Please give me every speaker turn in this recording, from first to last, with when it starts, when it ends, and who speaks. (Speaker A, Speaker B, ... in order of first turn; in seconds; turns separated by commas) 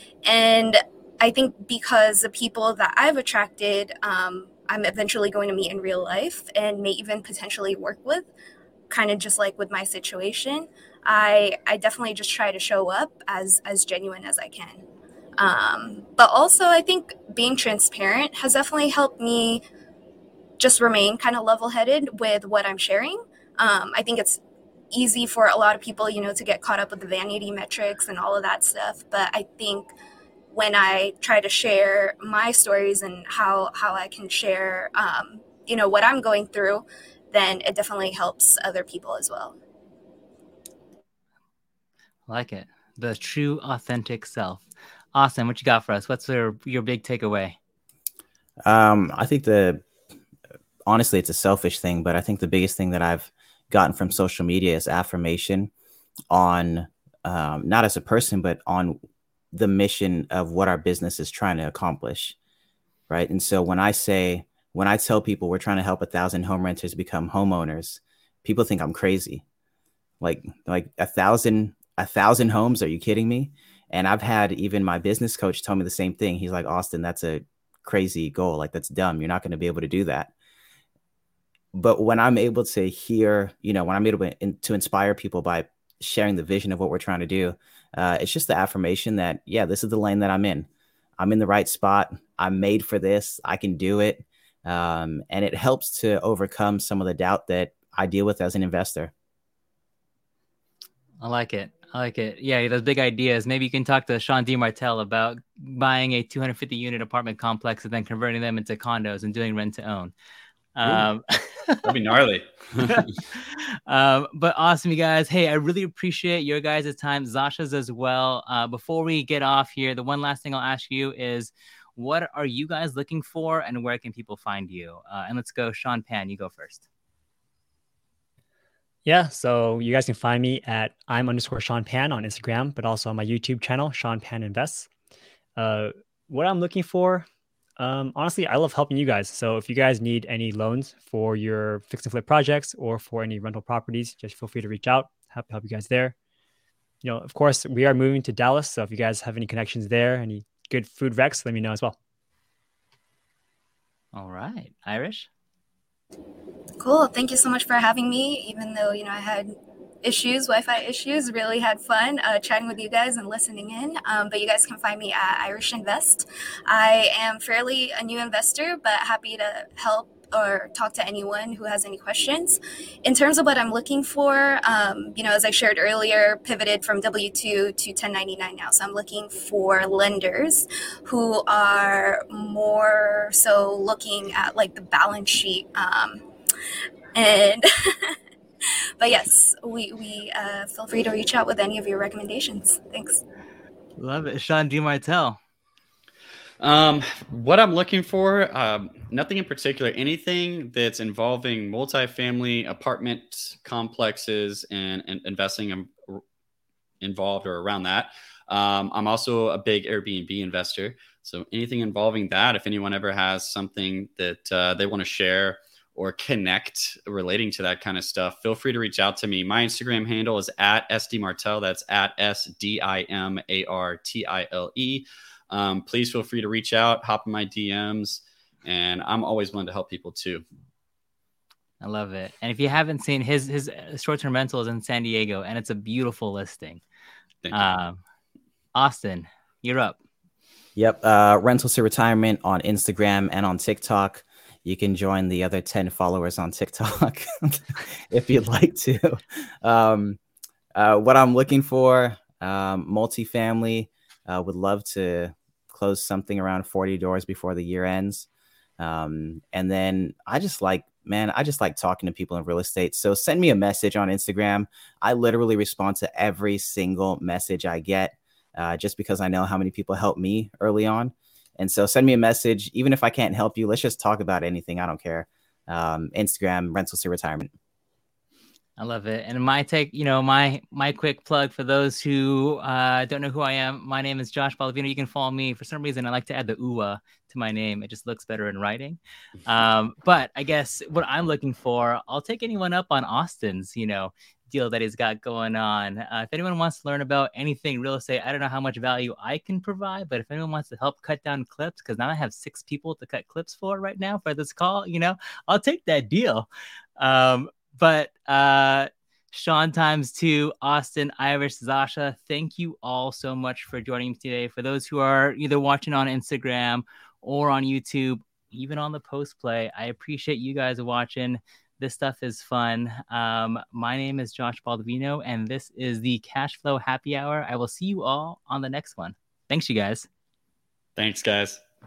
Speaker A: 0.2-8.3, Speaker A: 8.9-14.8, Speaker A: 15.4-19.6, Speaker A: 20.6-29.9, Speaker A: 30.5-39.6, Speaker B: 42.3-47.6, Speaker C: 48.6-49.9, Speaker C: 50.9-55.7, Speaker C: 56.3-59.0, Speaker C: 59.5-62.4, Speaker C: 63.1-69.4, Speaker C: 70.2-80.3, Speaker C: 81.7-90.7, Speaker C: 91.2-99.1, Speaker B: 101.2-110.1, Speaker B: 110.8-111.9, Speaker D: 111.8-113.1, Speaker B: 112.9-126.8, Speaker E: 129.1-134.9, Speaker E: 135.6-137.3, Speaker E: 137.8-146.2, Speaker E: 147.0-152.0, Speaker B: 154.1-155.3, Speaker A: 156.8-186.3, Speaker A: 187.2-188.2, Speaker A: 189.0-193.2, Speaker B: 194.0-195.4, Speaker D: 196.6-206.2, Speaker D: 207.0-230.4, Speaker B: 231.8-236.8, Speaker D: 237.4-237.7, Speaker B: 237.5-238.0, Speaker B: 238.8-240.0, Speaker C: 240.8-250.2, Speaker C: 250.8-258.3, Speaker C: 258.8-277.5, Speaker B: 278.8-306.5, Speaker B: 307.0-330.1, Speaker D: 331.0-331.6